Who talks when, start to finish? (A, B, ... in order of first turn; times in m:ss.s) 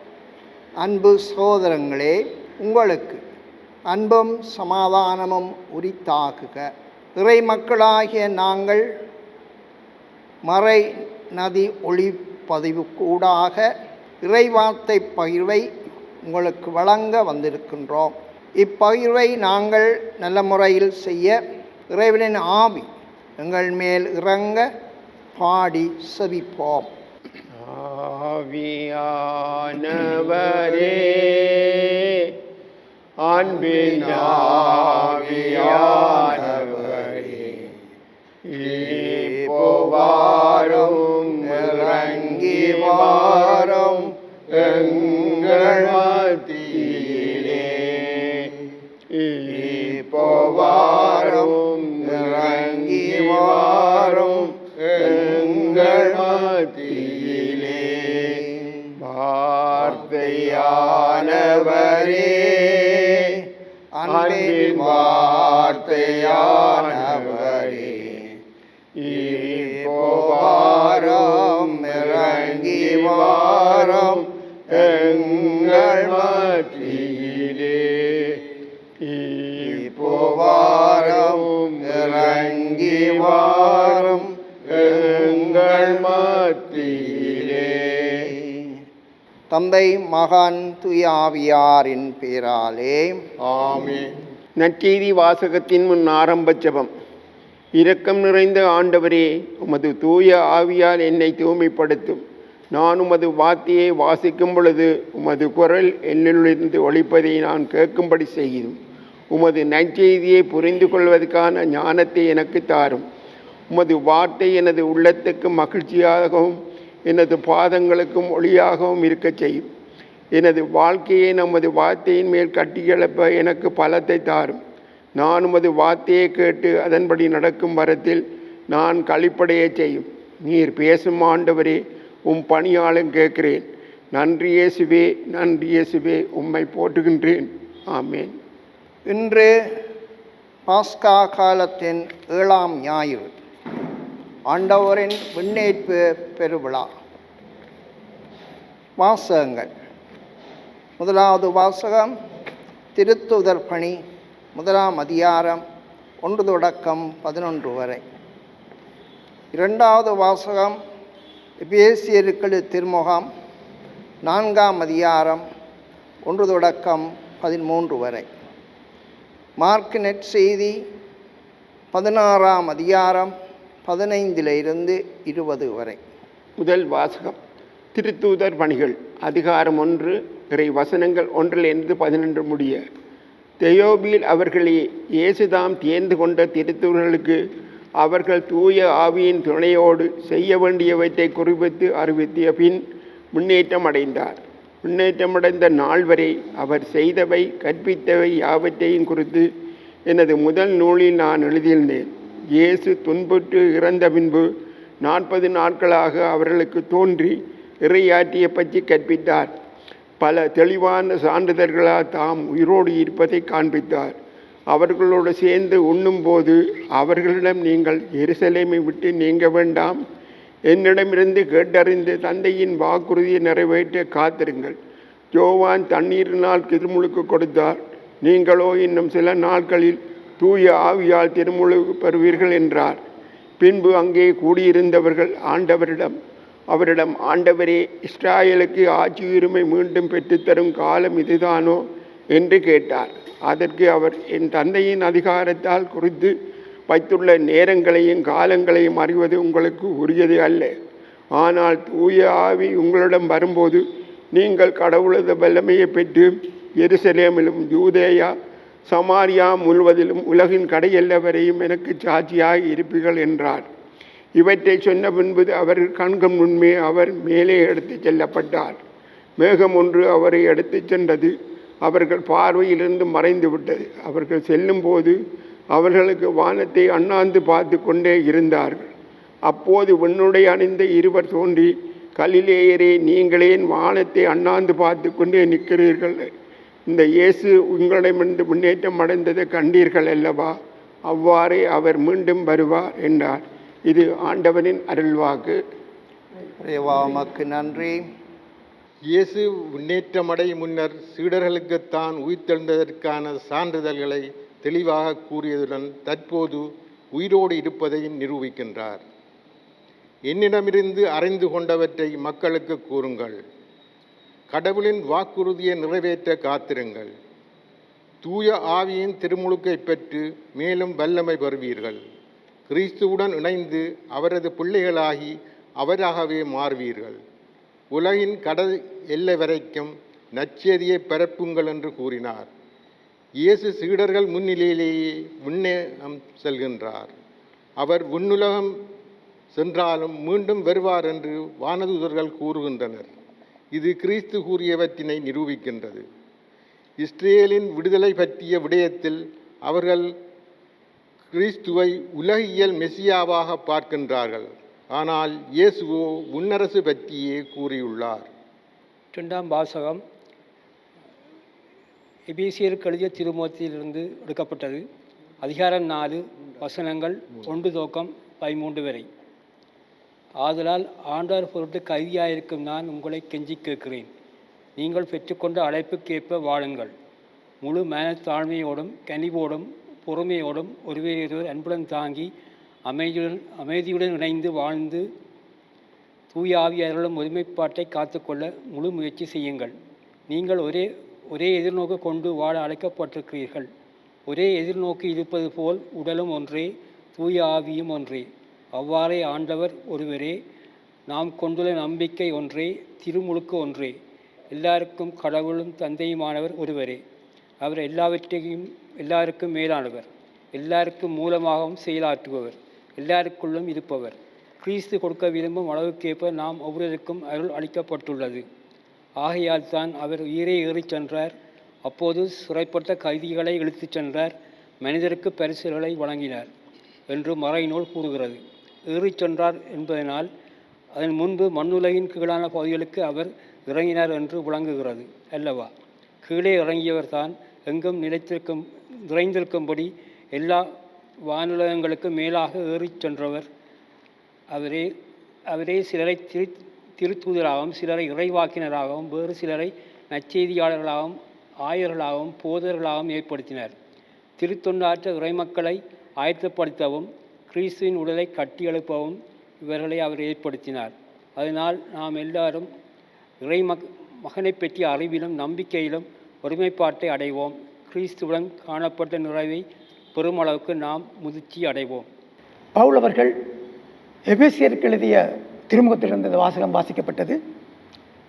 0:00.8-0:03.2 A
0:03.9-0:08.8 A
0:10.4-0:13.7 A
0:14.2-0:15.7 A
0:16.2-0:21.4 A
0:21.9-0:22.9 A
0:23.4-0:24.7 A
0:25.4-0:26.9 A
0:27.6-0:32.3 B
0:33.2-0:37.5 B
0:33.8-0:37.4 A
0:38.5-0:43.9 B
0:38.8-0:44.1 A
0:44.5-0:48.4 B
0:44.9-0:45.9 A
0:49.1-0:54.4 B
0:49.5-0:56.2 A
0:55.0-0:58.3 B
0:59.0-1:02.6 B
0:59.9-1:03.3 A
1:04.0-1:08.2 A
1:04.1-1:07.9 B
1:09.0-1:14.2 B
1:09.1-1:16.4 A
1:14.7-1:18.4 B
1:19.0-1:28.3 B
1:19.9-1:24.3 A
1:24.8-1:26.0 A
1:29.5-1:33.2 A
1:33.5-1:34.1 C
1:34.6-1:36.9 B
1:37.8-1:42.2 B
1:42.7-1:48.8 B
1:49.3-1:53.0 B
1:53.7-1:56.6 B
1:57.1-1:59.7 B
2:00.3-2:04.6 B
2:05.2-2:18.3 B
2:19.1-2:19.5 A
2:20.7-2:23.3 A
2:24.5-2:26.9 A
2:29.0-2:29.7 A
2:31.0-2:32.1 A
2:33.0-2:34.0 A
2:34.6-2:35.6 A
2:36.2-2:38.0 A
2:39.5-2:40.8 A
2:41.6-2:43.3 A
2:44.2-2:45.4 A
2:46.3-2:48.3 A
2:49.6-2:50.8 A
2:51.9-2:53.3 A
2:53.9-2:56.0 A
2:56.6-2:57.4 B
2:58.0-3:02.8 B
3:03.6-3:07.4 B
3:08.0-3:12.8 B
3:13.3-3:19.5 B
3:20.1-3:24.5 B
3:25.0-3:29.5 B
3:30.2-3:34.2 B
3:34.7-3:40.0 B
3:40.7-3:44.8 B
3:45.3-3:53.0 B
3:53.6-3:56.1 B
3:56.7-4:06.3 B
4:06.9-4:10.7 B
4:11.3-4:18.3 B
4:18.9-4:23.7 B
4:24.4-4:28.8 B
4:29.4-4:35.2 B
4:35.7-4:38.9 B
4:39.5-4:46.3 B
4:46.9-4:50.5 B
4:51.1-4:55.6 B
4:56.6-4:58.0 A
4:59.1-5:09.0 C
5:10.3-5:13.4 C
5:14.5-5:17.1 C
5:18.2-5:22.0 C
5:22.7-5:27.2 C
5:27.9-5:32.5 C
5:33.4-5:37.1 C
5:37.8-5:38.7 C
5:39.5-5:43.1 C
5:43.7-5:46.0 C
5:47.0-5:50.0 C
5:51.3-5:58.3 C
5:59.1-6:00.0 D
6:02.3-6:04.8 D
6:05.4-6:09.1 D
6:10.4-6:14.1 D
6:14.8-6:16.9 D
6:17.6-6:22.3 D
6:22.9-6:25.0 D
6:26.3-6:29.7 D
6:30.3-6:33.7 D
6:34.3-6:40.4 D
6:41.1-6:43.9 D
6:44.5-6:47.0 D
6:47.6-6:58.4 D
6:59.2-7:01.3 D
7:01.8-7:06.5 D
7:07.1-7:10.3 D
7:11.0-7:15.7 D
7:16.2-7:20.7 D
7:21.3-7:23.4 D
7:24.5-7:24.9 D
7:25.5-7:33.7 D
7:34.4-7:42.7 D
7:43.4-7:49.6 D
7:50.2-7:52.1 D
7:52.8-7:53.3 E
7:54.3-7:57.4 E